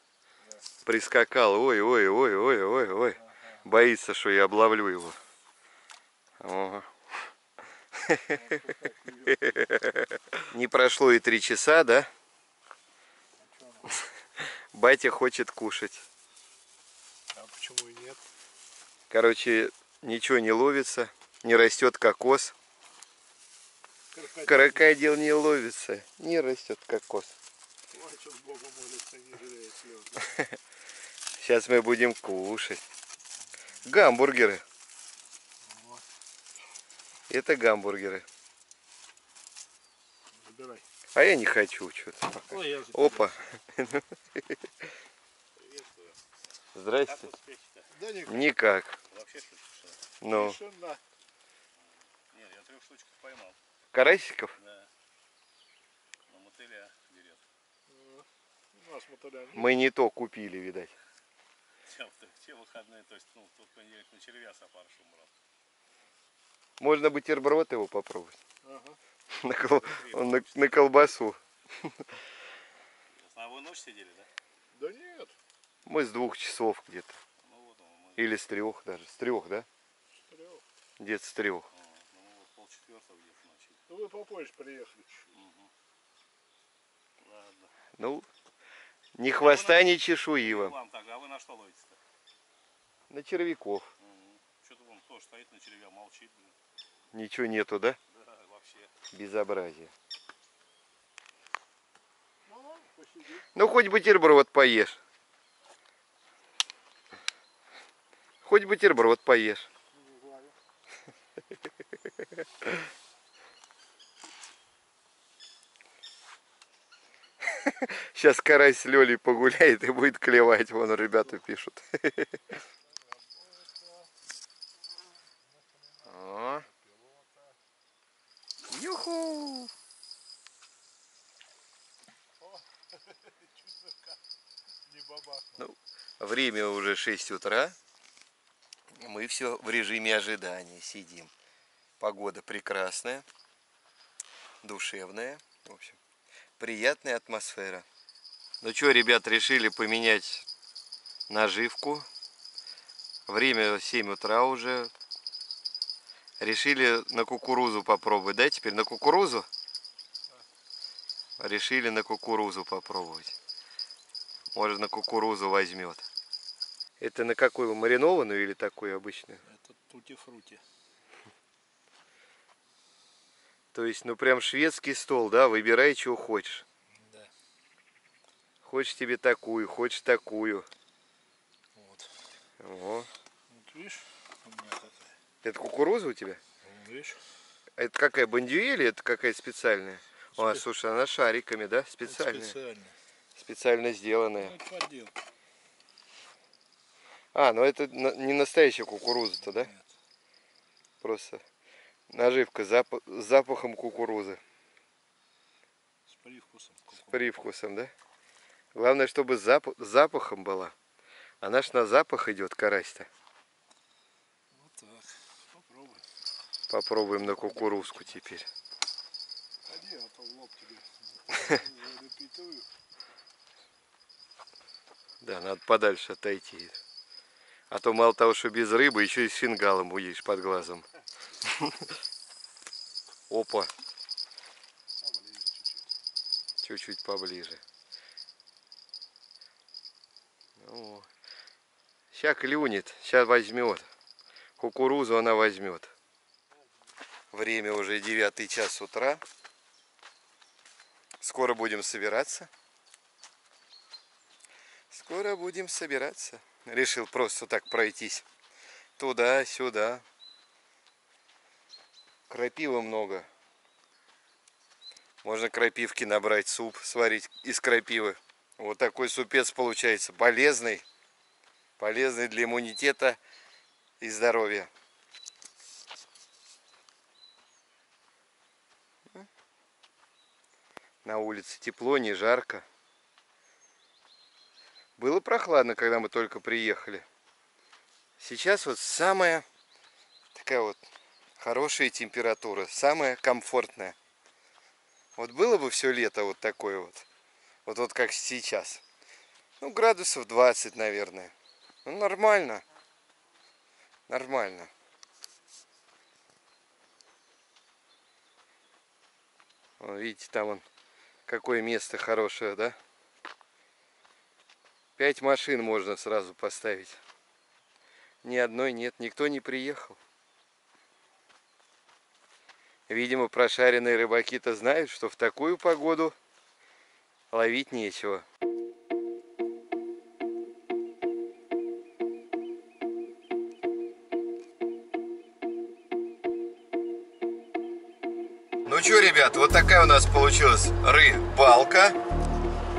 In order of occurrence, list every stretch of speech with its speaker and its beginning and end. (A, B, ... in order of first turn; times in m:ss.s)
0:00.8-0:05.2 A
0:06.4-0:06.9 A
0:08.0-0:08.4 A
0:08.3-0:10.0 B
0:09.5-0:12.1 A
0:13.4-0:13.9 B
0:14.7-0:16.0 A
0:17.3-0:18.2 B
0:19.1-0:22.5 A
0:24.1-0:25.0 B
0:24.5-0:27.3 A
0:27.9-0:30.3 B
0:31.4-0:32.8 A
0:33.8-0:34.6 A
0:35.7-0:36.0 B
0:37.3-0:38.2 A
0:40.4-0:40.8 B
0:41.2-0:44.6 A
0:42.5-0:43.4 B
0:45.6-0:46.2 C
0:46.8-0:47.3 A
0:47.1-0:47.9 C
0:47.9-0:48.5 B
0:48.3-0:49.0 A
0:49.1-0:50.0 C
0:50.2-0:50.6 A
0:50.3-0:51.0 B
0:52.3-0:53.6 C
0:53.9-0:54.5 A
0:54.6-0:54.9 C
0:56.3-0:57.4 C
0:57.9-0:59.7 B
0:59.5-1:00.9 A
1:01.9-1:05.3 C
1:06.8-1:08.4 A
1:08.6-1:09.0 B
1:09.4-1:12.0 A
1:09.7-1:11.1 C
1:13.2-1:14.3 C
1:14.8-1:15.3 B
1:15.9-1:17.2 A
1:17.4-1:18.3 C
1:18.2-1:19.7 A
1:20.3-1:20.6 B
1:21.0-1:21.7 A
1:21.8-1:23.8 C
1:23.9-1:25.3 B
1:25.3-1:25.7 C
1:27.2-1:27.7 C
1:28.0-1:28.3 A
1:29.2-1:30.8 A
1:29.3-1:32.0 C
1:33.1-1:33.9 A
1:34.0-1:36.6 C
1:37.1-1:38.0 A
1:38.1-1:38.9 C
1:39.1-1:39.9 A
1:42.5-1:43.5 B
1:43.6-1:45.0 A
1:48.4-1:49.7 A
1:49.9-1:50.6 B
1:57.6-2:02.4 A
2:03.1-2:04.1 B
2:05.6-2:07.6 B
2:06.1-2:06.6 A
2:08.7-2:09.7 A
2:12.4-2:14.2 B
2:14.9-2:15.6 B
2:15.6-2:17.8 A
2:19.0-2:21.3 A
2:22.0-2:23.3 A
2:24.6-2:26.0 A
2:26.6-2:27.9 A
2:28.6-2:30.5 A
2:31.3-2:32.1 A
2:33.3-2:34.9 A
2:36.4-2:39.5 A
2:41.4-2:43.3 A
2:44.5-2:46.0 A
2:47.0-2:49.4 A
2:49.5-2:50.6 B
2:53.7-2:56.6 A
2:57.0-2:57.3 B
2:58.6-3:00.7 A
3:01.8-3:02.1 B
3:02.6-3:03.1 A
3:03.5-3:05.1 B
3:05.4-3:06.4 A
3:06.6-3:07.2 B
3:07.8-3:12.6 A
3:10.4-3:10.6 B
3:12.0-3:12.9 B
3:13.4-3:14.6 A
3:14.4-3:15.1 B
3:17.3-3:19.7 A
3:19.5-3:19.9 B
3:21.0-3:21.4 A
3:22.1-3:24.4 A
3:26.1-3:27.2 B
3:27.1-3:27.9 A
3:28.8-3:30.7 A
3:31.4-3:33.1 A
3:34.5-3:36.0 B
3:36.7-3:38.5 A
3:37.3-3:38.2 B
3:39.7-3:42.7 B
3:45.2-3:46.8 A
3:47.7-3:50.8 A
3:51.4-3:51.9 A
3:53.3-3:53.7 A
3:55.0-3:55.9 B
3:56.6-3:57.6 A
4:00.6-4:01.1 A
4:02.1-4:03.9 A
4:04.6-4:05.9 A
4:07.3-4:09.2 A
4:11.2-4:12.5 A
4:14.9-4:18.2 A
4:19.0-4:20.0 A
4:22.3-4:23.3 A
4:25.2-4:30.8 A
4:31.8-4:33.2 A
4:34.0-4:34.7 A
4:41.0-4:42.6 A
4:45.0-4:47.0 A
4:48.2-4:49.4 A
4:50.4-4:50.8 A
4:51.4-4:54.0 A
4:55.2-4:57.0 A
4:57.7-4:58.8 A
4:59.6-5:01.3 A
5:01.8-5:02.6 A
5:04.1-5:04.7 A
5:09.8-5:10.6 A
5:11.3-5:12.8 A
5:15.0-5:17.0 A
5:18.2-5:20.0 A
5:22.9-5:26.2 A
5:27.3-5:28.2 A
5:38.7-5:42.0 A